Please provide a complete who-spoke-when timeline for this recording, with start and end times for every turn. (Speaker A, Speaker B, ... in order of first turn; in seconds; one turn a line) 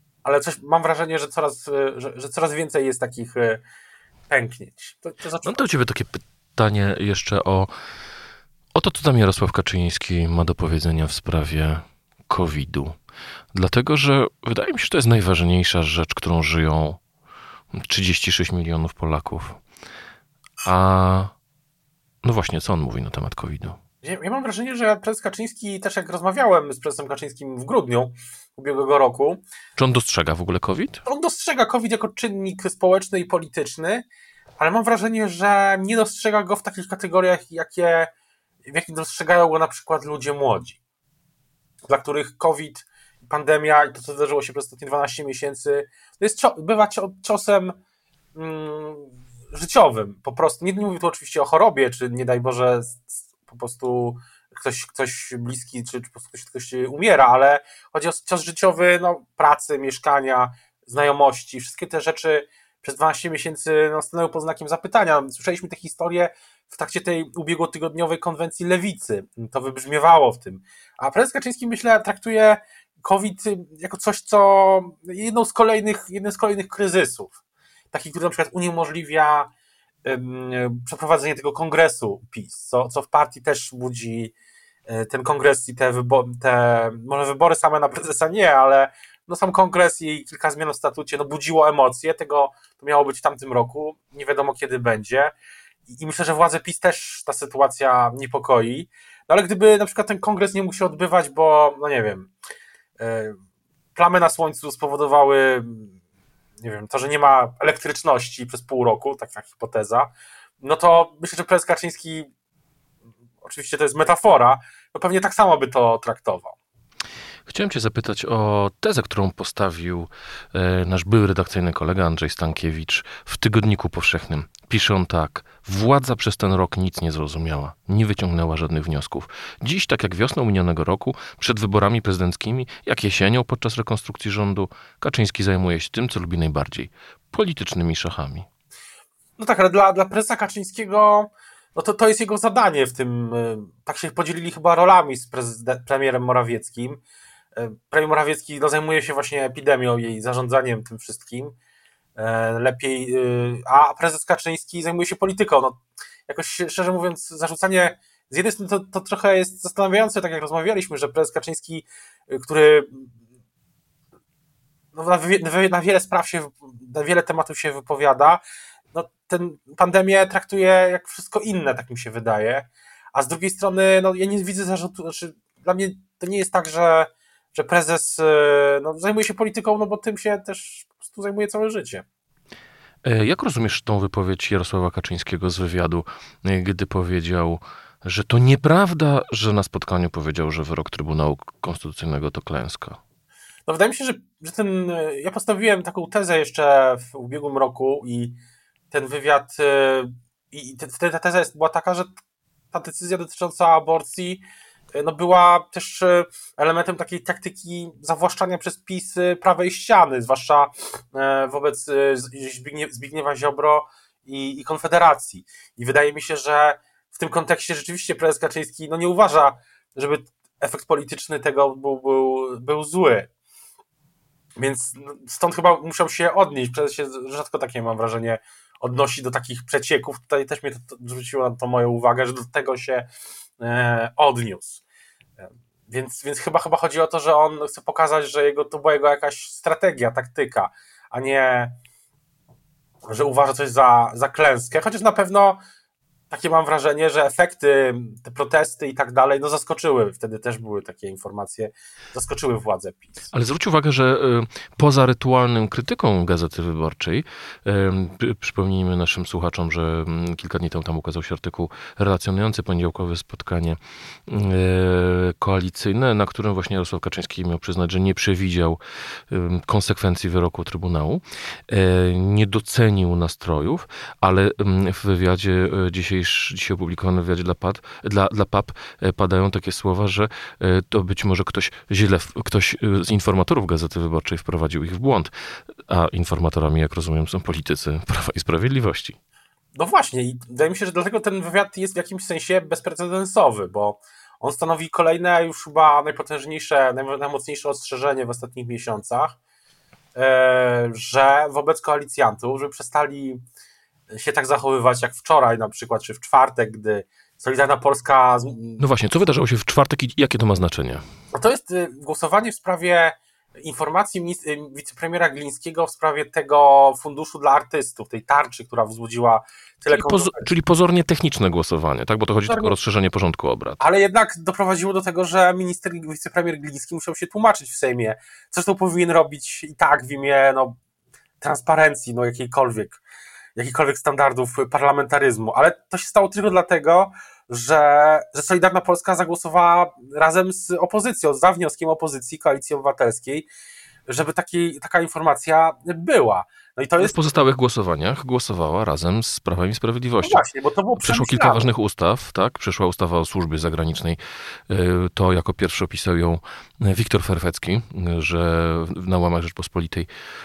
Speaker A: 0.2-3.6
Speaker A: 4.3-5.6
Speaker B: 5.5-7.7
Speaker B: 8.7-12.9
Speaker B: 13.5-17.0
Speaker B: 17.8-19.6
Speaker B: 20.6-21.3
Speaker B: 22.2-23.8
Speaker A: 24.0-29.4
Speaker B: 29.8-31.0
Speaker A: 31.1-34.0
Speaker A: 34.6-38.1
Speaker A: 38.6-40.8
Speaker A: 41.9-47.8
Speaker A: 48.3-77.3
Speaker A: 77.9-79.5
Speaker A: 80.0-84.3
Speaker A: 84.9-95.3
Speaker A: 95.9-102.3
Speaker A: 103.0-103.4
Speaker A: 103.9-105.9
Speaker A: 106.6-112.3
Speaker A: 113.4-116.5
Speaker B: 117.5-138.5
Speaker A: 139.4-147.0
Speaker A: 147.5-151.6
Speaker A: 152.2-163.1
Speaker A: 164.9-182.0
Speaker B: 183.0-193.0
Speaker A: 193.7-198.4
Speaker A: 198.9-202.1
Speaker A: 202.7-223.3
Speaker A: 224.6-233.1
Speaker A: 233.6-234.8
Speaker A: 235.9-241.7
Speaker A: 243.1-245.6
Speaker A: 246.3-253.1
Speaker B: 253.3-268.8
Speaker B: 269.3-285.3
Speaker B: 285.9-289.1
Speaker A: 289.7-299.4
Speaker A: 300.1-303.4
Speaker A: 304.1-308.9
Speaker B: 308.8-311.0
Speaker A: 311.3-320.5
Speaker B: 319.9-323.8
Speaker A: 322.4-322.8
Speaker A: 323.8-330.8
Speaker A: 331.4-333.0
Speaker A: 333.6-343.5
Speaker A: 344.1-347.3
Speaker B: 347.0-350.4
Speaker A: 350.2-351.7
Speaker B: 351.0-354.2
Speaker B: 354.7-360.1